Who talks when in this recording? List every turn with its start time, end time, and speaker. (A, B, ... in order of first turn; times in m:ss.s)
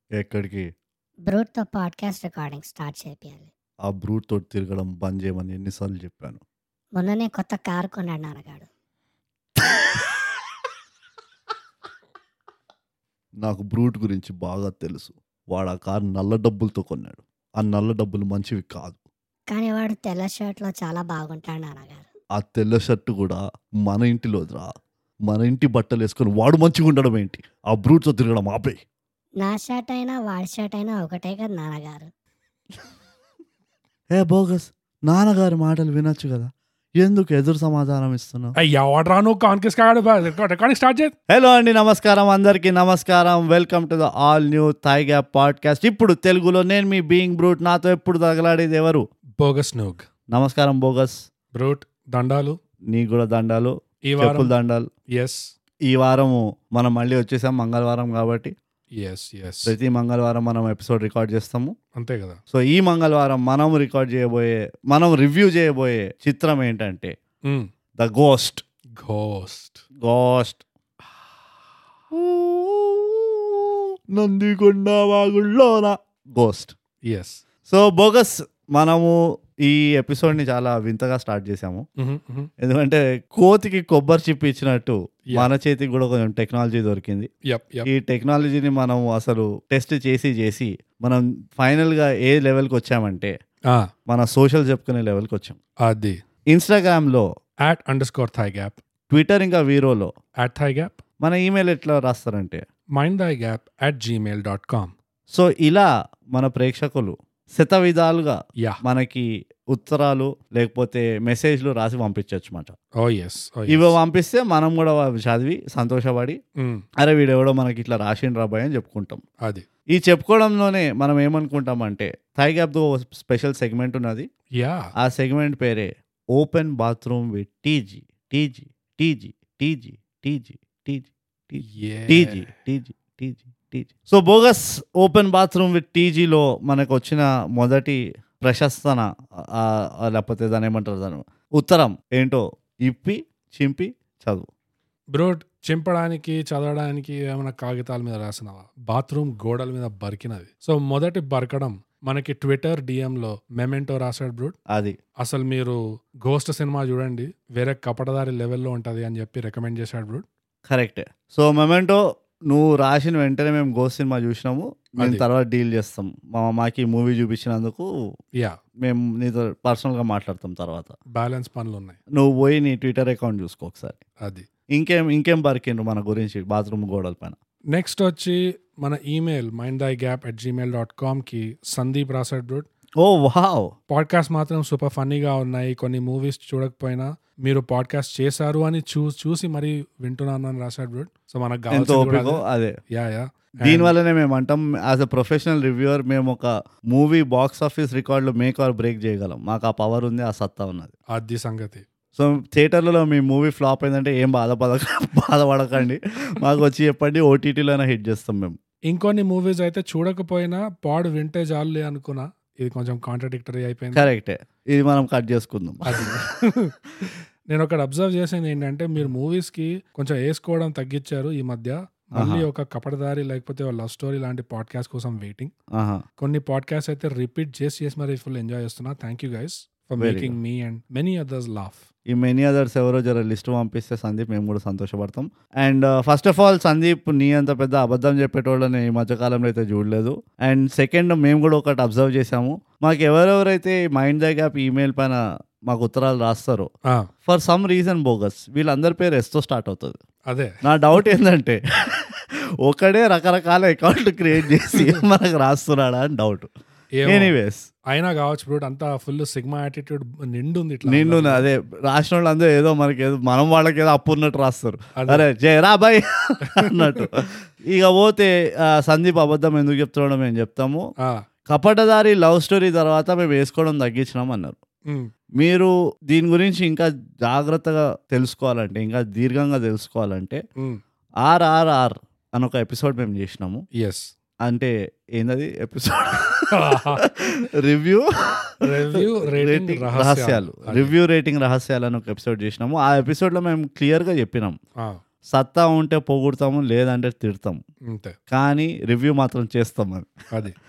0:00.2-0:00.7 A
0:01.3-0:03.5 B
0:03.9-0:06.4 A
0:07.0-0:08.7 B
0:13.4-0:19.0 A
0:19.5-0:22.1 B
0:22.4-0:28.8 A
0:29.4-0:32.1 B
0:34.1-0:38.5 A
0:38.6-0:41.1 C
0:41.3-0:49.0 A
0:49.4-0:50.1 C
0:50.3-0:51.2 A
0:51.5-0:52.6 C
0:52.9-0:54.9 A
0:54.1-0:54.5 C
0:55.2-0:55.5 C
0:55.9-0:58.5 A
0:59.0-0:59.7 C
0:59.6-1:01.7 A
1:02.0-1:02.4 C
1:02.5-1:07.1 A
1:08.0-1:08.6 A
1:09.0-1:09.8 C
1:10.0-1:10.6 A
1:12.1-1:16.7 A
1:17.1-1:17.4 C
1:17.7-1:21.8 A
1:22.0-1:22.5 C
1:22.6-1:27.3 A
1:27.5-1:27.9 C
1:27.8-1:33.3 A
1:34.1-1:35.6 A
1:35.8-1:36.2 C
1:36.5-1:37.3 A
1:37.7-1:38.8 C
1:39.1-1:40.1 A
1:40.4-1:41.0 C
1:41.2-1:42.6 A
1:43.0-1:44.9 C
1:45.3-1:52.8 A
1:53.0-1:54.0 C
1:53.7-1:56.4 A
1:57.0-1:59.2 A
1:59.9-2:04.3 A
2:04.6-2:04.9 C
2:05.0-2:24.5 A
2:11.7-2:12.5 C
2:25.1-2:34.5 C
2:34.7-2:35.0 A
2:35.2-2:40.2 C
2:40.7-2:47.9 A
2:48.8-2:50.9 A
2:51.1-2:52.0 C
2:52.1-2:54.0 A
2:54.7-2:57.4 A
2:57.7-3:02.6 C
3:03.0-3:03.7 A
3:03.9-3:12.4 C
3:11.7-3:12.7 A
3:12.9-3:13.9 C
3:13.6-3:20.9 A
3:21.1-3:21.8 C
3:22.2-3:28.6 A
3:28.9-3:34.1 C
3:33.9-3:36.2 A
3:35.8-3:45.5 C
3:42.2-3:42.4 A
3:45.7-3:46.0 A
3:46.2-3:51.8 C
3:50.0-3:50.4 A
3:52.1-4:06.7 A
4:07.3-4:10.0 A
4:10.6-4:16.5 A
4:14.7-4:15.0 C
4:17.0-4:17.3 C
4:17.1-4:17.7 A
4:17.9-4:21.4 C
4:20.9-4:30.9 A
4:25.0-4:25.2 C
4:26.5-4:27.0 C
4:31.5-4:34.6 A
4:35.4-4:40.4 A
4:41.2-4:43.6 A
4:43.8-4:44.1 C
4:44.4-4:54.6 A
4:46.5-4:47.0 C
4:48.6-4:50.9 C
4:55.3-4:57.6 A
4:57.9-4:58.2 C
4:58.3-5:00.1 A